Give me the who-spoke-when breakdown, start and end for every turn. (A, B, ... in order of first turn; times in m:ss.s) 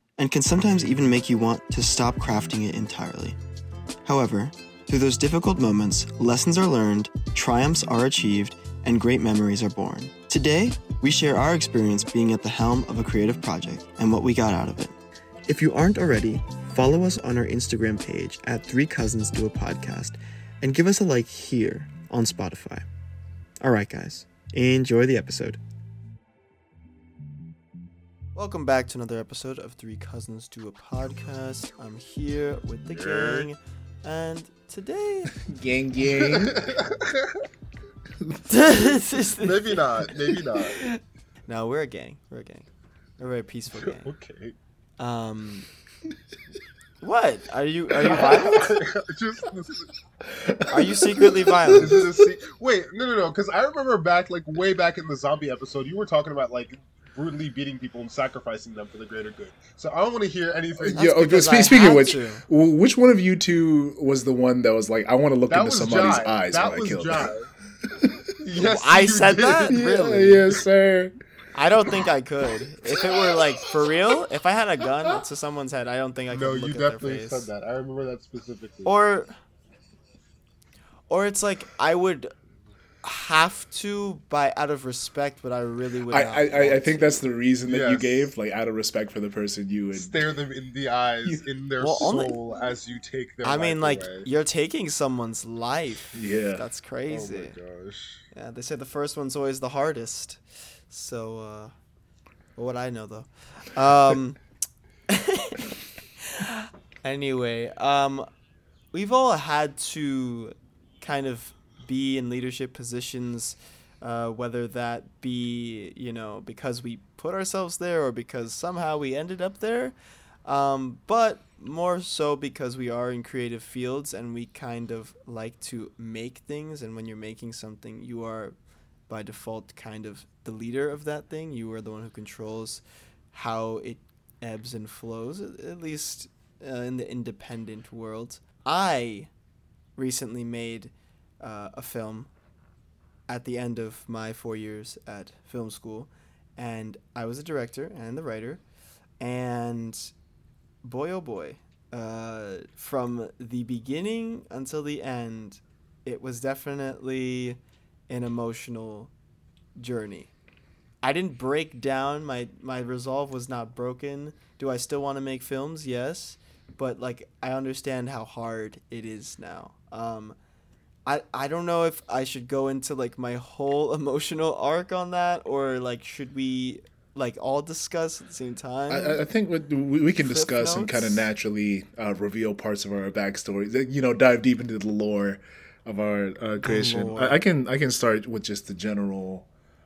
0:00.2-0:03.4 A
0:04.0-0:22.9 A
0:23.6-0:25.6 A
0:28.3-0:35.3 A
0:32.9-0:33.5 B
0:35.4-0:36.6 C
0:36.2-0:37.3 B
0:38.5-0:39.8 A
0:39.4-0:40.8 B
0:40.6-0:44.1 A
0:43.8-0:44.6 B
0:45.0-0:45.7 A
0:47.0-0:48.7 A
0:48.0-0:48.4 C
0:48.1-0:49.9 B
0:50.2-0:52.2 C
0:50.7-0:51.9 A
0:51.7-1:01.0 B
1:00.8-1:07.3 C
1:00.9-1:02.4 A
1:05.5-1:07.5 B
1:07.9-1:08.3 C
1:08.4-1:09.8 B
1:08.6-1:10.5 A
1:09.7-1:11.1 C
1:11.5-1:17.5 A
1:16.3-1:19.0 B
1:18.8-1:19.3 A
1:21.1-1:22.3 A
1:23.0-1:27.2 A
1:26.1-1:30.2 C
1:27.6-1:28.3 B
1:29.9-1:34.3 B
1:31.8-1:32.4 A
1:33.4-1:37.6 A
1:36.1-1:36.6 C
1:37.1-1:38.2 B
1:38.3-1:41.7 A
1:42.6-1:44.4 A
1:45.1-1:48.3 A
1:48.9-2:08.6 A
2:09.1-2:19.3 A
2:20.0-2:22.3 A
2:23.3-2:28.6 A
2:29.2-2:30.1 A
2:30.8-2:39.1 A
2:39.8-2:40.3 A
2:41.0-2:50.4 A
2:51.0-2:59.2 A
2:58.9-3:09.5 C
3:00.2-3:01.3 A
3:06.6-3:07.4 A